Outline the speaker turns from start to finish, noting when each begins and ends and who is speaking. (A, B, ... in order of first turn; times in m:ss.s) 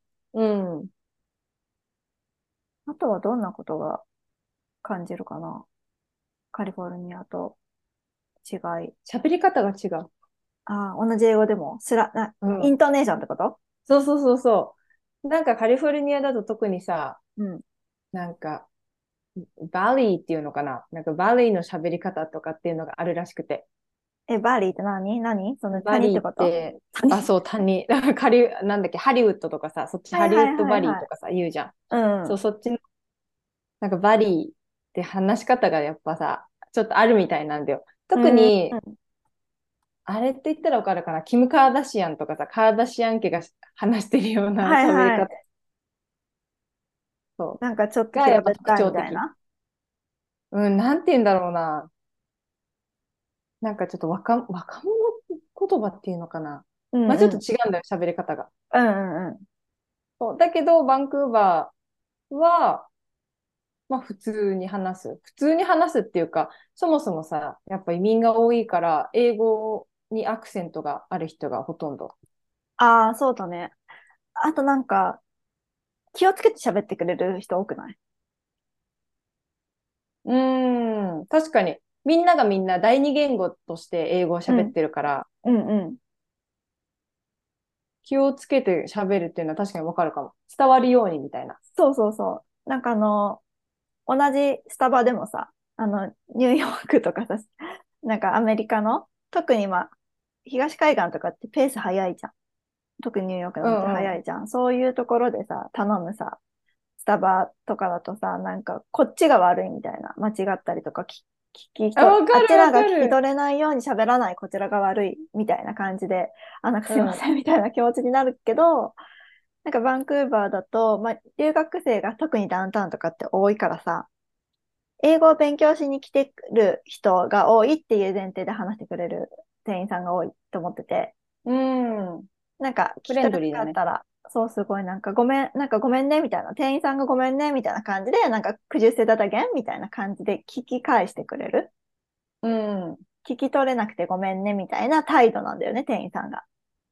0:00.3-0:00.9 A
0:02.9-0:04.0 B
0:04.8-0:05.7 B
0:06.5-0:07.6 B
0:08.4-0:08.9 B
0:09.1-0:10.1 A
0:10.7-0:13.6 B
0:12.4-0:12.7 A
0:13.9-0:17.2 A
0:17.4-0:17.6 B
0:18.1-0:18.7 A
0:19.4-0:23.6 A
0:24.3-0:27.3 B
0:25.8-0:31.7 A
0:30.1-0:31.1 B
0:31.9-0:32.4 B
0:32.3-0:32.8 A
0:33.8-0:38.8 A
0:38.2-0:39.0 B
0:40.1-0:45.3 A
0:44.6-0:45.3 B
0:47.6-0:49.3 B
0:48.1-0:49.2 A
0:50.5-0:51.9 A
0:53.6-0:58.5 A
0:56.9-0:57.4 B
0:58.7-0:59.4 B
1:00.2-1:01.7 A
1:02.3-1:02.9 A
1:03.9-1:12.1 A
1:12.8-1:13.7 B
1:14.4-1:15.2 B
1:16.1-1:18.0 B
1:20.2-1:25.3 A
1:24.5-1:24.7 B
1:25.4-1:26.0 B
1:28.0-1:31.6 A
1:31.8-1:33.4 B
1:34.1-1:37.5 B
1:38.0-1:39.9 B
1:40.5-1:42.3 B
1:43.0-1:46.4 B
1:43.6-1:44.2 A
1:47.0-1:59.0 B
1:52.0-1:53.2 A
1:56.9-1:57.2 A
1:59.6-2:04.1 B
2:05.0-2:11.1 B
2:11.4-2:12.3 A
2:12.6-2:21.7 B
2:13.1-2:13.8 A
2:22.4-2:23.0 A
2:23.2-2:26.4 B